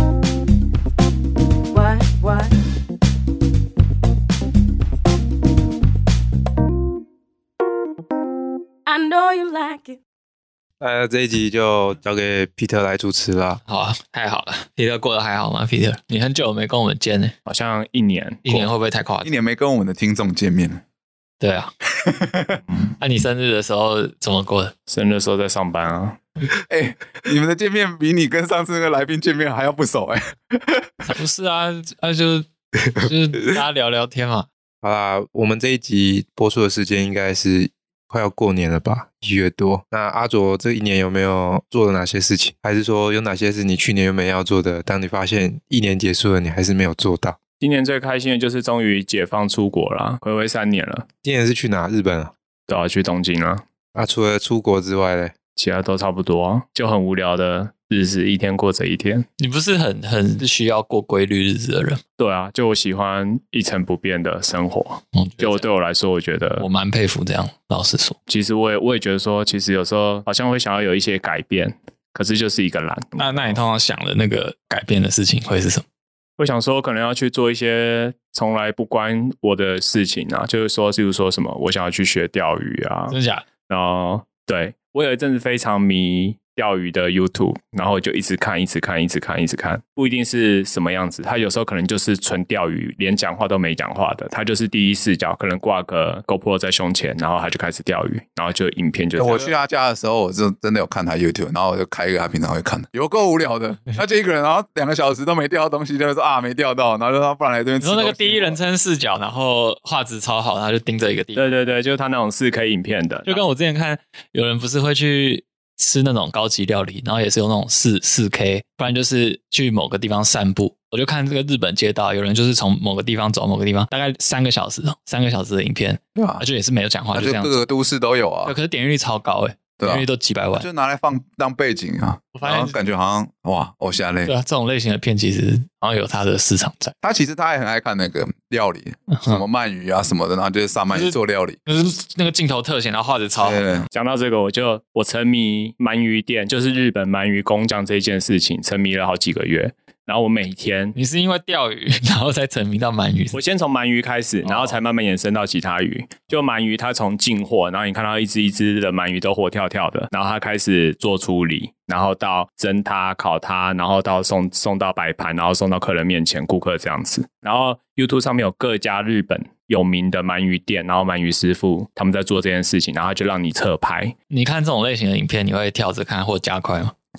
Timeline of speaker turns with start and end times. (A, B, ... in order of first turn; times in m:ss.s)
0:01.7-0:02.5 A
0:08.8-0:10.0 A
0:10.8-0:13.6 B
0:13.7-0:17.3 C
0:17.5-0:18.7 D
0:18.5-0:19.3 C
0:19.2-0:20.8 E
0:21.4-0:21.7 C
0:22.0-0:22.6 E
0:23.0-0:24.7 C
0:24.9-0:26.2 D
0:26.7-0:31.1 E
0:31.1-0:34.5 C
0:34.8-0:47.4 B
0:47.6-0:51.1 D
0:51.2-0:52.3 B
0:52.7-0:53.6 D
0:54.0-0:55.3 B
0:55.6-0:59.3 D
0:59.4-1:02.0 C
1:02.2-1:06.7 D
1:05.1-1:05.7 C
1:06.6-1:08.2 C
1:08.3-1:13.6 D
1:13.2-1:15.8 C
1:16.4-1:23.2 D
1:23.1-1:23.4 C
1:23.7-1:39.5 D
1:39.2-1:48.6 E
1:47.8-1:51.5 C
1:51.4-1:53.4 D
1:53.3-2:07.6 C
2:06.2-2:06.4 E
2:07.1-2:08.6 E
2:08.4-2:10.7 C
2:09.8-2:14.3 E
2:12.4-2:12.8 C
2:14.3-2:17.0 C
2:17.0-2:21.6 E
2:19.1-2:19.4 C
2:20.9-2:23.9 C
2:23.4-2:23.9 E
2:23.9-2:31.0 D
2:31.0-2:33.4 C
2:33.3-2:54.2 D
2:34.4-2:34.8 C
2:54.3-2:56.9 C